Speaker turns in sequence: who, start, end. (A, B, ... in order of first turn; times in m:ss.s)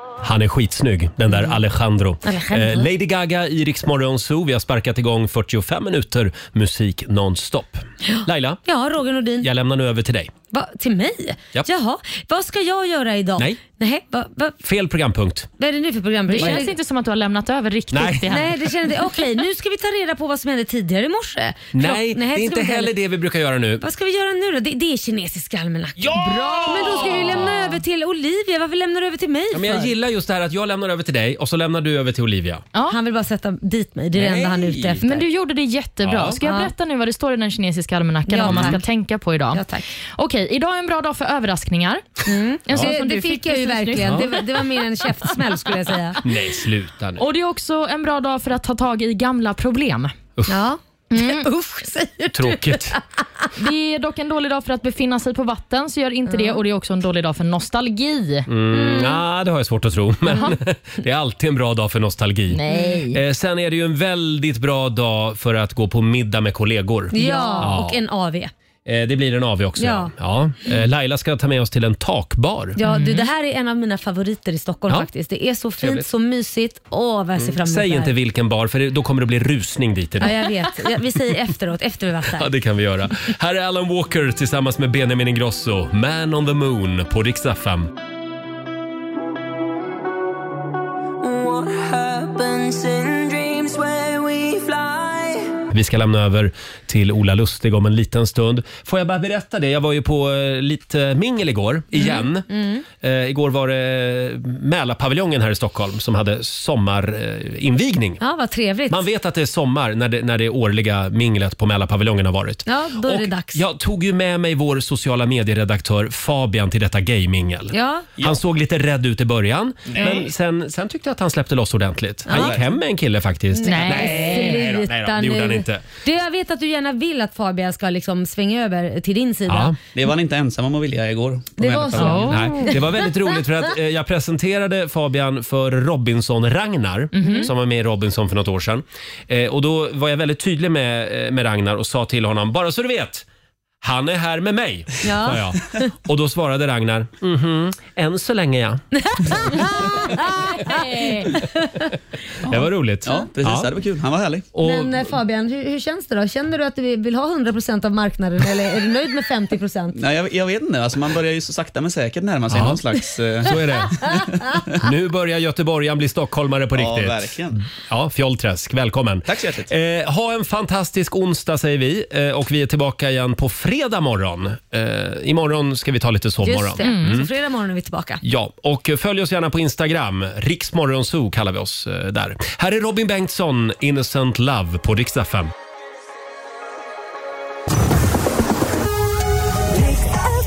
0:00.2-0:08.6 A
0:02.2-0:02.9 B
0:08.0-0:09.5 B
0:09.4-0:10.3 A
0:10.5-0:14.6 B
0:14.6-0:15.5 A
0:15.6-0:16.7 B
0:16.3-0:18.6 C
0:16.4-0:16.6 A
0:17.9-0:18.5 A
0:18.3-0:22.9 B
0:21.7-0:23.8 A
0:23.8-0:29.9 B
0:26.0-0:27.8 A
0:26.2-0:27.6 C
0:29.5-0:32.6 A
0:32.9-0:35.2 B
0:34.1-0:35.0 A
0:35.0-0:39.6 C
0:36.0-0:36.4 A
0:36.4-0:36.7 B
0:38.3-0:38.8 B
0:38.4-0:38.8 A
0:39.5-0:39.9 B
0:40.2-0:44.4 C
0:42.3-0:46.2 B
0:44.0-0:44.3 A
0:46.2-0:47.2 A
0:47.2-0:50.1 C
0:50.4-0:50.6 A
0:50.5-0:53.5 B
0:51.1-0:51.5 C
0:52.3-0:53.0 A
0:53.6-0:58.5 C
0:56.3-0:56.6 B
0:58.5-1:02.6 A
0:58.7-0:59.2 B
1:02.5-1:03.2 C
1:02.7-1:03.0 B
1:03.1-1:08.0 A
1:07.1-1:08.5 B
1:07.2-1:07.7 C
1:08.9-1:12.8 A
1:09.8-1:10.1 B
1:12.8-1:18.1 B
1:12.9-1:13.3 C
1:15.8-1:16.1 A
1:17.4-1:20.9 A
1:20.2-1:22.5 B
1:22.3-1:27.9 A
1:31.2-1:35.6 D
1:35.7-1:42.5 A
1:41.9-1:42.8 B
1:43.0-1:48.2 A
1:48.2-1:49.0 B
1:48.9-2:05.8 A
1:52.7-1:53.6 B
1:57.7-1:58.1 B
1:59.9-2:00.2 E
2:00.0-2:00.2 B
2:02.3-2:02.6 B
2:02.3-2:02.7 E
2:03.5-2:09.8 B
2:03.7-2:04.6 C
2:09.5-2:09.8 A
2:09.9-2:12.3 E
2:11.6-2:13.1 B
2:12.0-2:12.5 C
2:12.3-2:23.3 A
2:17.2-2:17.5 C
2:17.2-2:17.5 B
2:23.8-2:29.5 A
2:25.0-2:25.9 B
2:29.0-2:31.9 B
2:30.7-2:31.3 C
2:32.5-2:33.7 A
2:33.0-2:34.5 E
2:34.5-2:35.2 A
2:34.6-2:40.0 B
2:39.9-2:44.6 E
2:42.5-2:42.8 A
2:43.4-2:57.3 A
2:46.8-2:47.6 E
2:49.3-2:49.7 E
2:56.4-2:58.2 B
2:56.8-2:57.2 C
2:58.2-3:05.5 A